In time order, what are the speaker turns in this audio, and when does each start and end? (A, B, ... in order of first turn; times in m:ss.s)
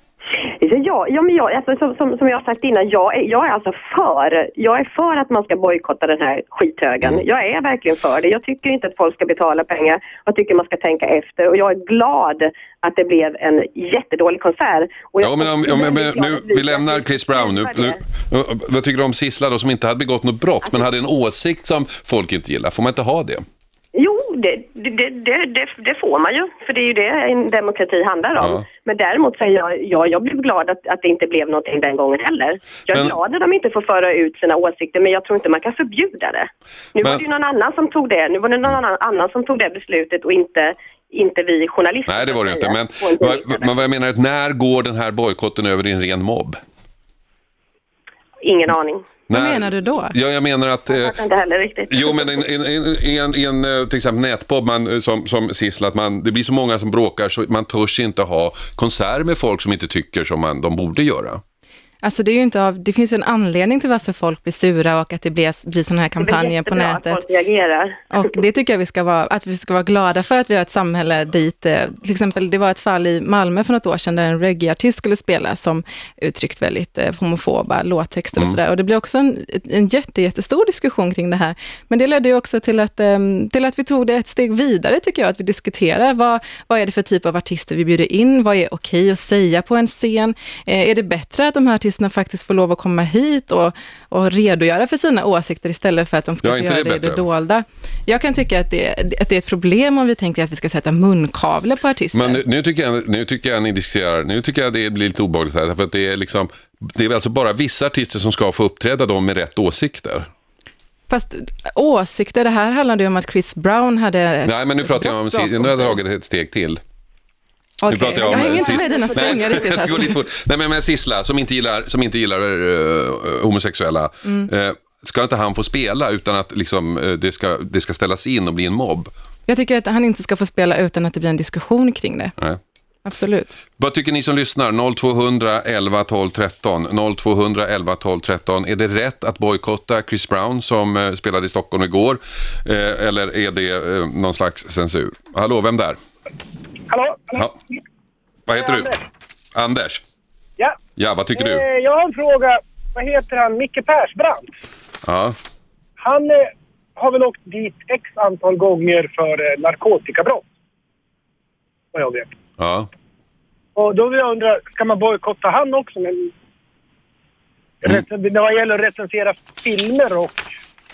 0:00.6-0:18.0 A
0:15.2-0:23.4 B
0:23.9-0:43.8 A
0:28.4-0:28.6 B
0:42.1-0:46.6 B
0:48.4-0:49.0 A
0:49.3-0:51.2 B
0:49.3-0:50.1 C
0:50.9-0:52.4 A
0:51.9-1:01.4 B
1:02.0-1:07.2 C
1:06.2-1:08.2 A
1:08.1-1:42.4 C
1:36.4-1:37.2 B
1:42.1-1:50.3 B
1:51.1-1:56.0 C
1:54.4-1:56.8 B
1:57.8-2:00.2 C
1:57.9-2:09.1 B
1:58.2-1:59.7 A
2:09.5-2:12.3 C
2:13.0-2:13.6 C
2:13.8-2:26.0 B
2:26.9-2:27.7 D
2:28.5-2:28.9 B
2:28.5-2:29.0 D
2:29.5-2:30.0 B
2:31.0-2:31.6 B
2:31.4-2:34.5 D
2:35.0-2:35.4 B
2:36.0-2:40.4 D
2:41.9-2:42.3 D
2:42.6-2:42.9 B
2:43.8-2:46.3 D
2:47.8-2:50.5 D